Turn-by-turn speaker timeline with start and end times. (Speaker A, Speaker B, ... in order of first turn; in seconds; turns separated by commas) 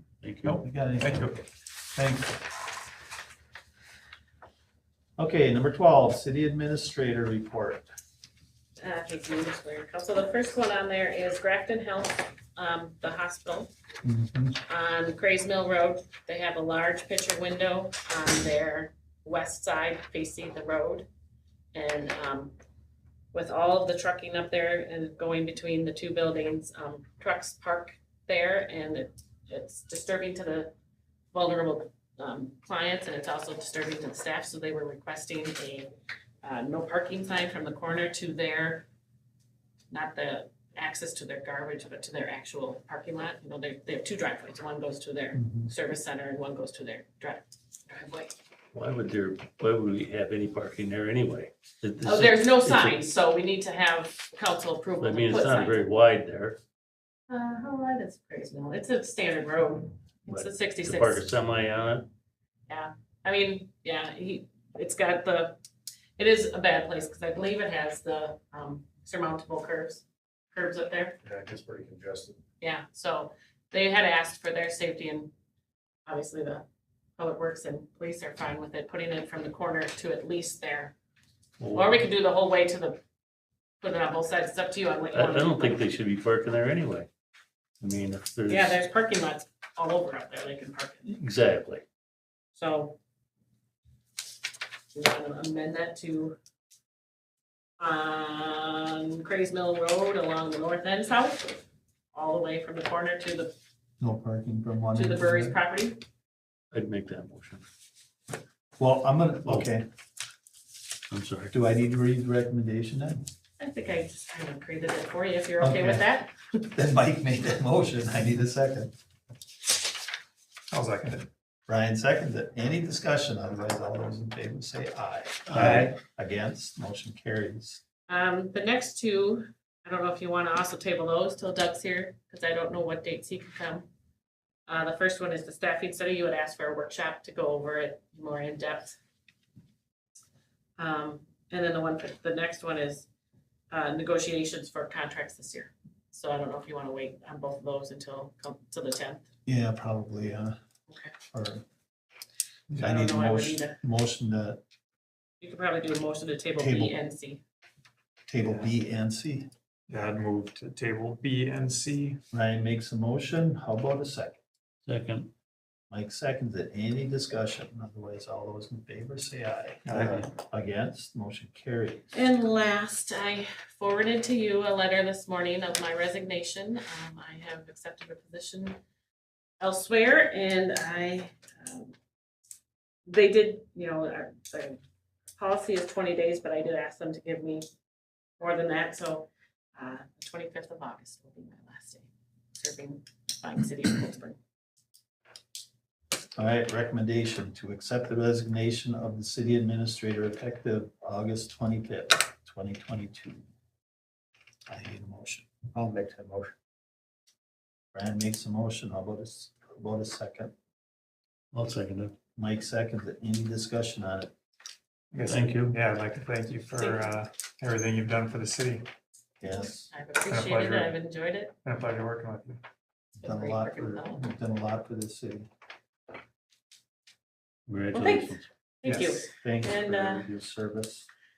Speaker A: 0.2-0.6, Speaker B: 0.4-1.4, Speaker C: 0.5-1.3, Speaker C: 1.9-2.4, Speaker C: 5.2-7.9, Speaker D: 8.8-13.7, Speaker C: 14.0-14.6, Speaker D: 14.7-21.1, Speaker D: 21.7-22.5, Speaker D: 23.3-30.7, Speaker D: 31.3-35.9, Speaker D: 36.4-38.9, Speaker D: 39.9-48.3, Speaker C: 45.3-45.7, Speaker A: 48.7-53.0, Speaker D: 52.0-55.9, Speaker A: 55.0-56.6, Speaker D: 57.3-61.2, Speaker A: 60.3-62.1, Speaker D: 62.7-65.6, Speaker D: 66.2-71.2, Speaker B: 71.3-71.8, Speaker D: 72.6-75.3, Speaker D: 76.0-76.6, Speaker D: 77.2-80.9, Speaker A: 81.6-82.0, Speaker D: 81.7-83.0, Speaker D: 83.8-85.8, Speaker A: 85.1-87.1, Speaker A: 87.8-88.8, Speaker D: 88.5-91.1, Speaker A: 91.1-91.8, Speaker D: 92.5-93.0, Speaker D: 94.9-96.4, Speaker D: 97.8-103.5, Speaker C: 104.0-105.5, Speaker D: 104.9-106.0, Speaker A: 106.7-107.6, Speaker C: 108.8-109.8, Speaker A: 111.1-111.5, Speaker C: 111.5-113.2, Speaker D: 113.6-116.3, Speaker C: 115.6-116.0, Speaker C: 116.6-118.9, Speaker B: 120.7-121.3, Speaker C: 121.7-127.8, Speaker A: 125.5-125.8, Speaker B: 125.6-125.9, Speaker D: 128.1-133.9, Speaker D: 134.7-139.0, Speaker D: 140.8-143.1, Speaker D: 143.7-149.2, Speaker C: 149.5-150.6, Speaker D: 150.9-151.1, Speaker C: 151.3-151.6, Speaker C: 152.8-154.6, Speaker D: 152.8-153.8, Speaker D: 155.4-157.4, Speaker C: 156.6-156.9, Speaker C: 158.3-159.5, Speaker B: 158.4-158.7, Speaker B: 159.9-162.2, Speaker C: 162.3-164.4, Speaker A: 164.9-165.3, Speaker C: 165.9-172.1, Speaker B: 169.8-170.2, Speaker D: 172.1-178.8, Speaker D: 179.6-181.9, Speaker D: 183.1-184.8, Speaker D: 185.4-187.7, Speaker D: 188.4-194.4, Speaker C: 196.4-203.4, Speaker C: 204.7-206.5, Speaker C: 207.9-210.5, Speaker A: 211.5-212.2, Speaker C: 212.4-214.3, Speaker B: 215.1-218.9, Speaker A: 215.2-215.8, Speaker D: 216.8-217.1, Speaker C: 219.4-219.9, Speaker D: 219.5-221.5, Speaker B: 220.2-221.0, Speaker B: 221.6-222.6, Speaker D: 223.2-224.3, Speaker C: 223.2-225.5, Speaker A: 227.7-228.5, Speaker D: 227.9-230.3, Speaker B: 228.8-229.2, Speaker C: 229.2-231.1